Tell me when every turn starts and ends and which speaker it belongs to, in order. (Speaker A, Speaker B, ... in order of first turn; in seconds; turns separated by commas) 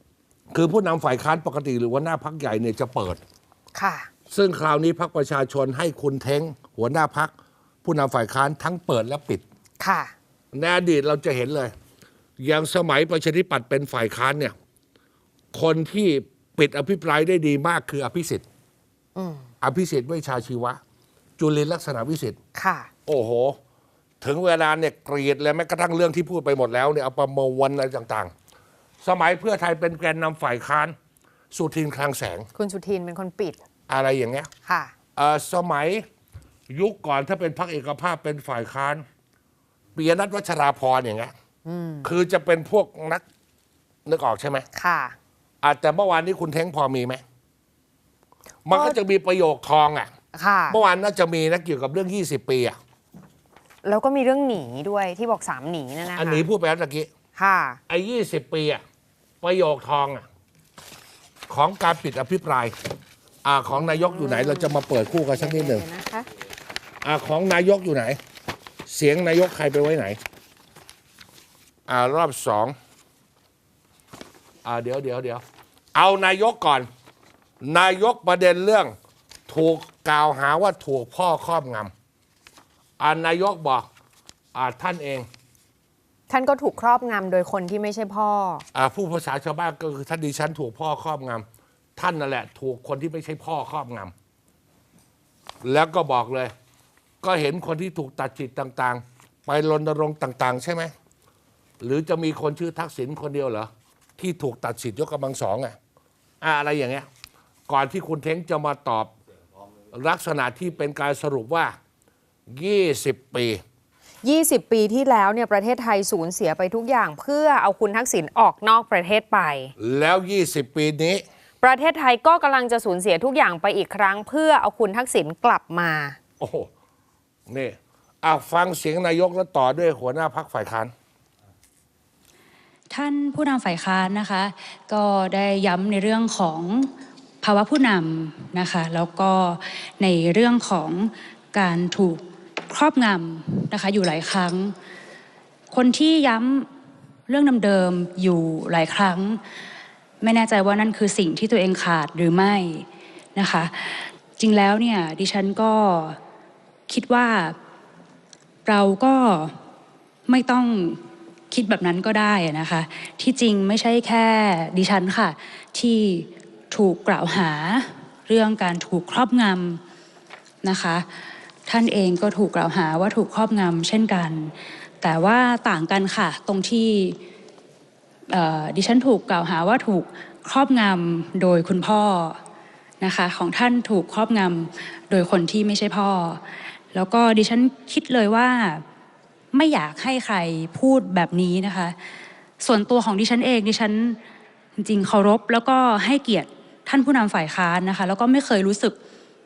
Speaker A: 0.5-3.2, Speaker B: 3.7-4.1, Speaker A: 4.3-7.3, Speaker A: 7.8-9.4, Speaker B: 9.8-10.1, Speaker A: 10.5-11.7, Speaker A: 12.4-14.5, Speaker A: 15.5-18.4, Speaker B: 19.1-19.4, Speaker A: 19.6-20.8, Speaker A: 21.4-22.4, Speaker B: 22.5-22.9, Speaker A: 23.1-23.6, Speaker A: 24.2-28.3, Speaker A: 29.0-30.9, Speaker A: 31.5-32.5, Speaker B: 32.5-33.6, Speaker A: 33.9-34.5, Speaker B: 34.6-34.9, Speaker A: 35.1-36.0, Speaker A: 36.7-39.0, Speaker A: 39.9-41.3, Speaker B: 41.6-42.1, Speaker A: 42.0-43.2, Speaker A: 44.0-44.6, Speaker B: 44.7-45.1, Speaker A: 45.6-47.2, Speaker A: 48.6-50.1, Speaker B: 48.7-49.0, Speaker B: 50.3-50.8, Speaker A: 50.7-52.8, Speaker B: 53.8-56.4, Speaker A: 56.2-57.1, Speaker B: 57.4-57.8, Speaker A: 57.9-58.8, Speaker A: 59.4-60.2, Speaker A: 61.5-62.7, Speaker A: 63.4-65.8, Speaker B: 63.7-64.8, Speaker B: 65.3-66.2, Speaker A: 67.0-68.2, Speaker A: 68.9-70.2, Speaker A: 71.9-72.7, Speaker A: 74.6-75.4, Speaker A: 75.9-76.9, Speaker A: 77.6-78.9, Speaker A: 79.5-81.9, Speaker A: 83.0-83.9, Speaker A: 84.5-85.3, Speaker B: 86.3-88.6, Speaker A: 88.7-91.5, Speaker A: 92.0-94.1, Speaker A: 95.6-96.5, Speaker A: 97.2-100.9, Speaker A: 101.8-105.8, Speaker A: 106.4-107.1, Speaker A: 107.7-109.1, Speaker A: 109.9-111.8, Speaker A: 112.5-113.6, Speaker B: 114.2-119.7, Speaker A: 119.8-121.2, Speaker B: 121.6-126.2, Speaker A: 126.4-126.7, Speaker A: 127.5-130.9, Speaker C: 132.9-136.9, Speaker C: 137.4-144.7, Speaker C: 145.7-146.7, Speaker C: 147.3-149.4, Speaker C: 150.2-156.2, Speaker C: 156.9-157.6, Speaker C: 158.7-159.5, Speaker C: 160.3-169.8, Speaker C: 170.6-171.1, Speaker C: 171.7-177.2, Speaker C: 178.3-182.4, Speaker C: 183.0-188.8, Speaker C: 189.5-191.9, Speaker C: 192.6-194.2, Speaker C: 194.8-198.9